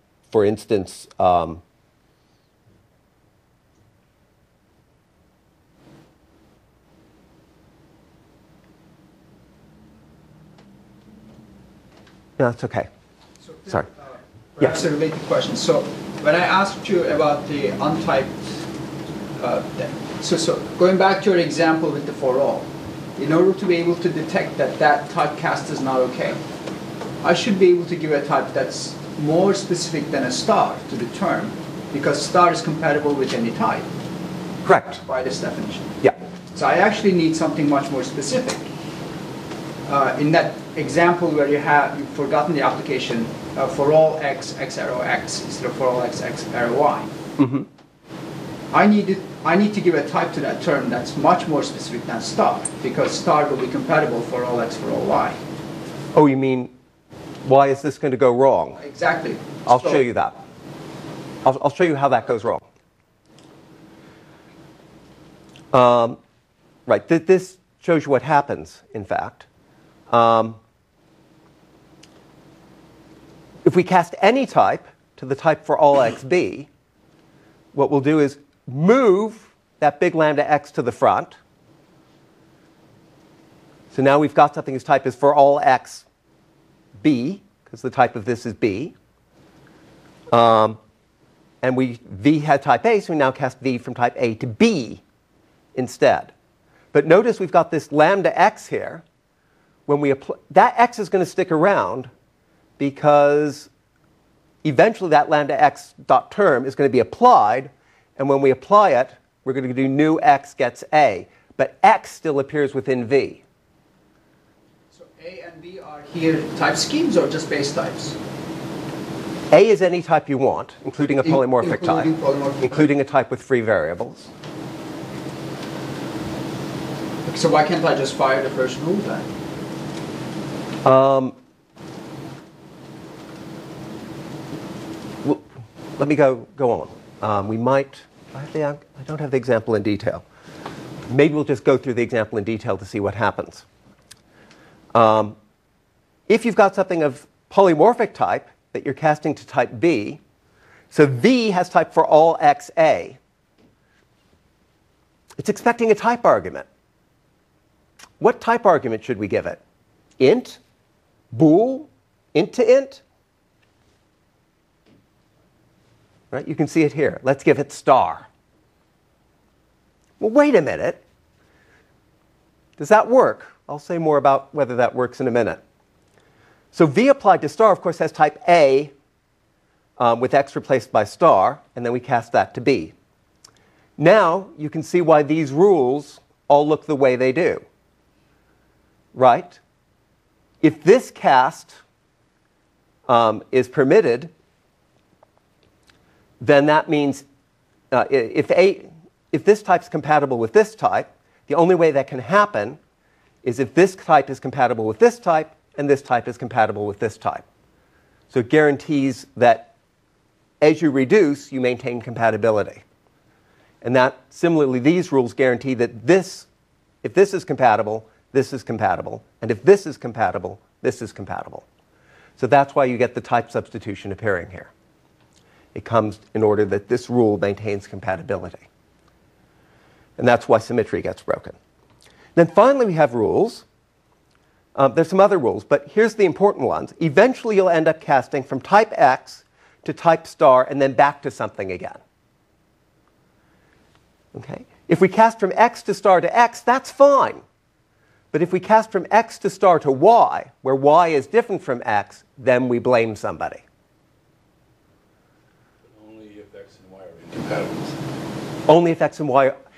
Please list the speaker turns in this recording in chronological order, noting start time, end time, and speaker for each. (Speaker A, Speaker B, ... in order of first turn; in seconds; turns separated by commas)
Speaker A: 0.3-1.6, Speaker A: 12.4-12.9, Speaker B: 13.4-18.3, Speaker B: 19.4-26.4, Speaker B: 27.2-33.9, Speaker A: 34.6-35.0, Speaker B: 35.0-38.6, Speaker B: 39.9-47.1, Speaker A: 47.4-47.7, Speaker B: 48.7-55.4, Speaker A: 56.1-56.7, Speaker A: 57.4-58.8, Speaker B: 58.8-60.0, Speaker A: 59.6-60.4, Speaker A: 61.4-62.7, Speaker A: 65.7-66.2, Speaker A: 66.9-69.5, Speaker A: 70.1-70.6, Speaker A: 73.6-76.7, Speaker A: 77.7-81.4, Speaker A: 83.9-86.0, Speaker A: 87.0-88.9, Speaker A: 90.3-90.8, Speaker A: 91.6-95.0, Speaker A: 95.7-96.3, Speaker A: 96.9-99.0, Speaker A: 99.9-102.1, Speaker A: 102.8-103.7, Speaker A: 104.6-113.4, Speaker B: 114.9-118.2, Speaker A: 119.5-122.1, Speaker B: 121.2-122.8, Speaker A: 122.6-124.3, Speaker B: 127.2-129.3, Speaker A: 130.8-131.4, Speaker A: 136.0-140.2, Speaker A: 141.1-143.7, Speaker A: 144.9-145.4, Speaker A: 146.3-150.2, Speaker A: 150.9-153.2, Speaker A: 155.4-156.7, Speaker A: 158.2-159.6, Speaker A: 160.2-160.6, Speaker A: 161.3-163.0, Speaker A: 166.3-168.3, Speaker A: 170.2-171.0, Speaker A: 172.8-175.6, Speaker A: 176.7-178.9, Speaker A: 180.0-182.9, Speaker A: 184.0-187.6, Speaker A: 189.1-189.6, Speaker A: 190.6-191.8, Speaker A: 193.1-194.3, Speaker A: 196.4-197.2, Speaker A: 197.9-202.8, Speaker A: 203.4-207.4, Speaker A: 208.3-209.7, Speaker A: 210.6-212.8, Speaker A: 213.8-216.5, Speaker A: 217.0-221.7, Speaker A: 222.4-224.7, Speaker A: 225.7-228.7, Speaker A: 230.2-231.6, Speaker A: 232.3-233.7, Speaker A: 234.7-242.0, Speaker A: 244.3-247.4, Speaker A: 248.3-253.6, Speaker C: 255.9-258.0, Speaker A: 258.7-259.5